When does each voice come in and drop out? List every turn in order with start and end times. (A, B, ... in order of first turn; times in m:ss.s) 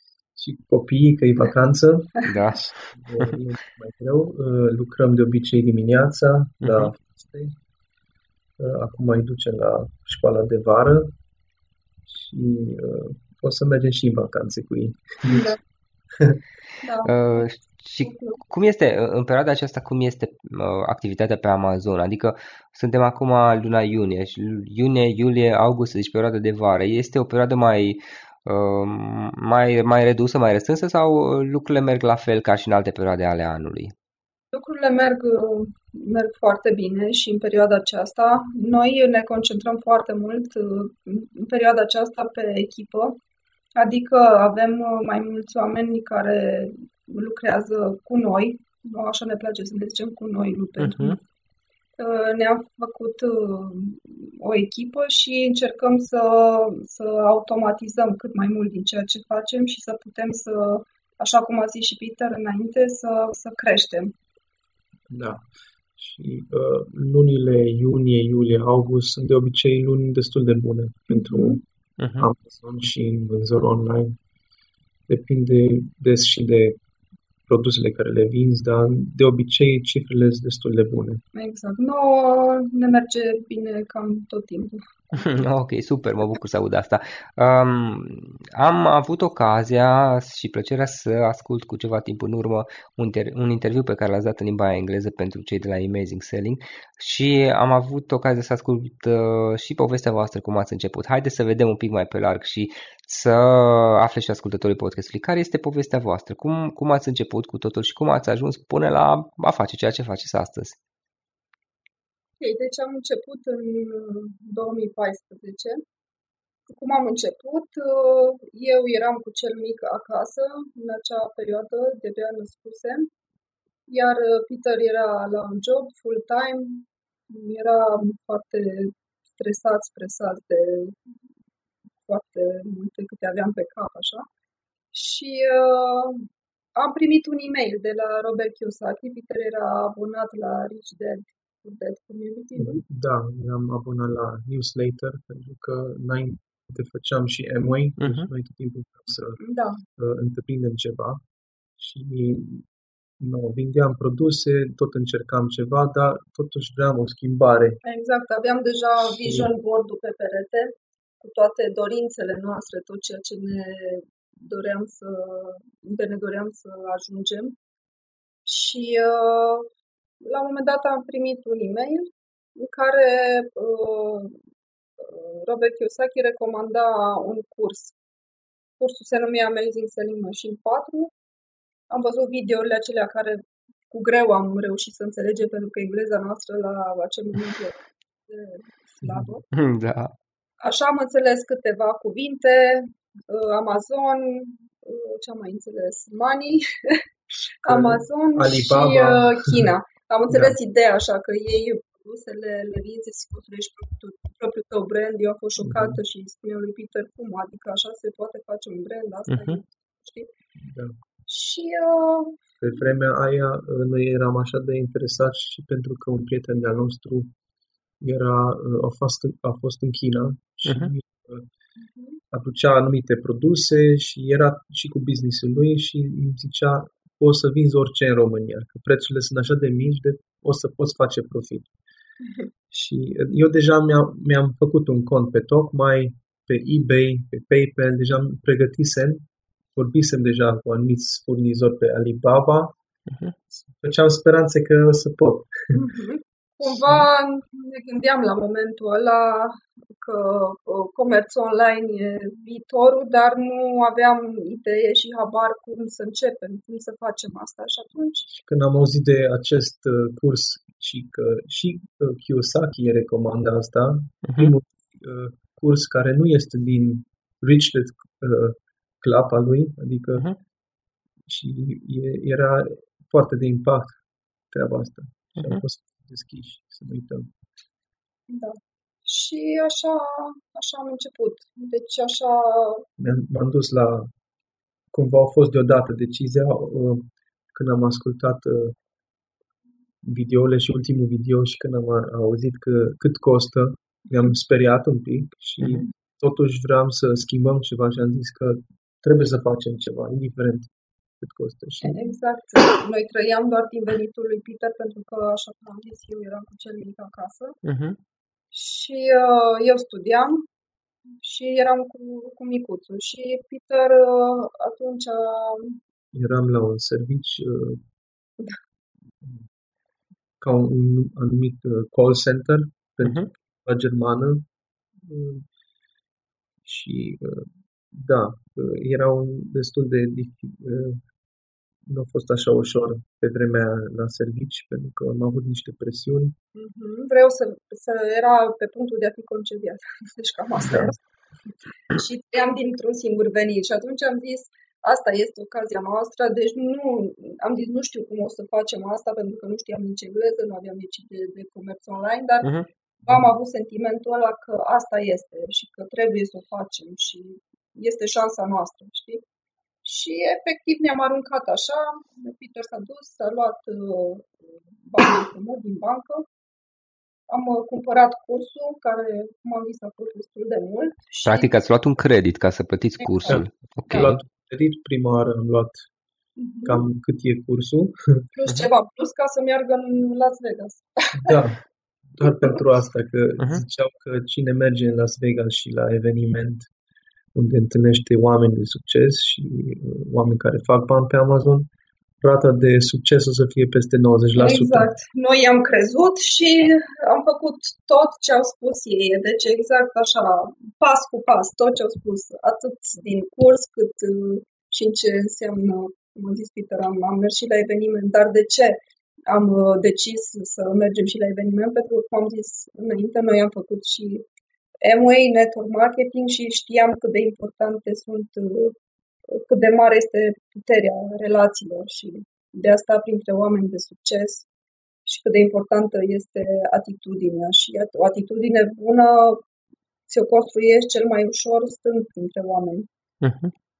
0:00.4-0:02.2 A
0:02.2-0:03.4 B
0:02.9-0:07.6 A
0:06.6-0:06.9 B
0:08.6-0:11.1 A
0:12.1-0:15.5 A
0:15.2-0:15.6 C
0:16.1-0:16.4 A
0:16.8-0:17.4 C
0:17.0-0:33.9 B
0:18.0-0:18.4 C
0:34.5-0:43.2 C
0:43.8-0:51.2 C
0:50.8-0:51.2 B
0:52.0-1:04.1 C
1:05.1-1:05.4 A
1:06.0-1:11.6 A
1:11.1-1:11.6 C
1:12.0-1:12.3 B
1:12.2-1:14.2 A
1:15.1-1:16.8 A
1:17.5-1:21.2 A
1:21.3-1:24.8 C
1:25.1-1:50.8 B
1:52.4-1:55.8 C
1:56.7-2:03.1 C
2:03.9-2:11.0 C
2:12.0-2:14.3 C
2:14.9-2:22.8 C
2:22.6-2:29.4 A
2:28.0-2:28.3 B
2:29.4-2:29.8 C
2:30.0-2:31.2 A
2:31.8-2:32.6 A
2:33.2-2:37.8 A
2:37.8-2:47.6 C
2:39.0-2:39.5 A
2:48.4-2:49.7 C
2:50.2-2:54.3 C
2:55.0-2:57.9 C
2:58.8-3:01.1 C
3:01.9-3:09.4 C
3:09.0-3:09.4 A
3:09.5-3:10.1 B
3:10.6-3:17.0 C
3:17.6-3:30.3 C
3:17.6-3:19.7 A
3:20.3-3:20.6 A
3:25.6-3:26.0 A
3:29.3-3:29.6 B
3:30.6-3:31.0 A
3:31.3-3:32.4 C
3:32.6-3:37.3 A
3:38.0-3:41.5 A
3:40.7-3:40.9 B
3:41.8-3:42.2 C
3:42.3-3:51.7 A
3:52.7-3:59.2 A
3:59.7-4:02.8 A
4:03.1-4:03.3 B
4:03.5-4:05.8 A
4:05.7-4:18.3 C
4:06.6-4:07.0 A
4:18.3-4:30.3 A
4:24.2-4:24.5 B
4:31.2-4:34.0 A
4:34.5-4:37.3 A
4:35.4-4:35.6 B
4:38.3-4:42.8 C
4:43.0-4:44.1 A
4:44.9-4:48.8 A
4:50.0-5:00.7 A
5:01.2-5:02.0 A
5:01.8-5:07.6 C
5:07.6-5:08.0 B
5:08.5-5:10.5 C
5:11.2-5:15.8 C
5:16.1-5:17.8 A
5:19.2-5:19.4 A
5:20.4-5:25.4 A
5:23.0-5:23.3 B
5:26.6-5:31.0 A
5:31.8-5:36.4 A
5:36.5-5:41.0 C
5:40.6-5:40.9 A
5:41.9-5:59.2 C
5:59.8-6:06.3 C
6:07.3-6:11.5 C
6:11.2-6:14.2 B
6:13.0-6:14.1 C
6:13.3-6:15.8 A
6:16.4-6:16.8 C
6:16.6-6:18.2 A
6:18.4-6:21.4 C
6:21.2-6:26.7 A
6:22.2-6:22.6 C
6:27.3-6:31.7 A
6:32.2-6:34.9 A
6:34.3-6:54.2 C
6:54.8-6:58.8 C
6:59.3-7:04.5 C
7:05.0-7:09.4 C
7:10.1-7:12.9 C
7:13.2-7:13.5 B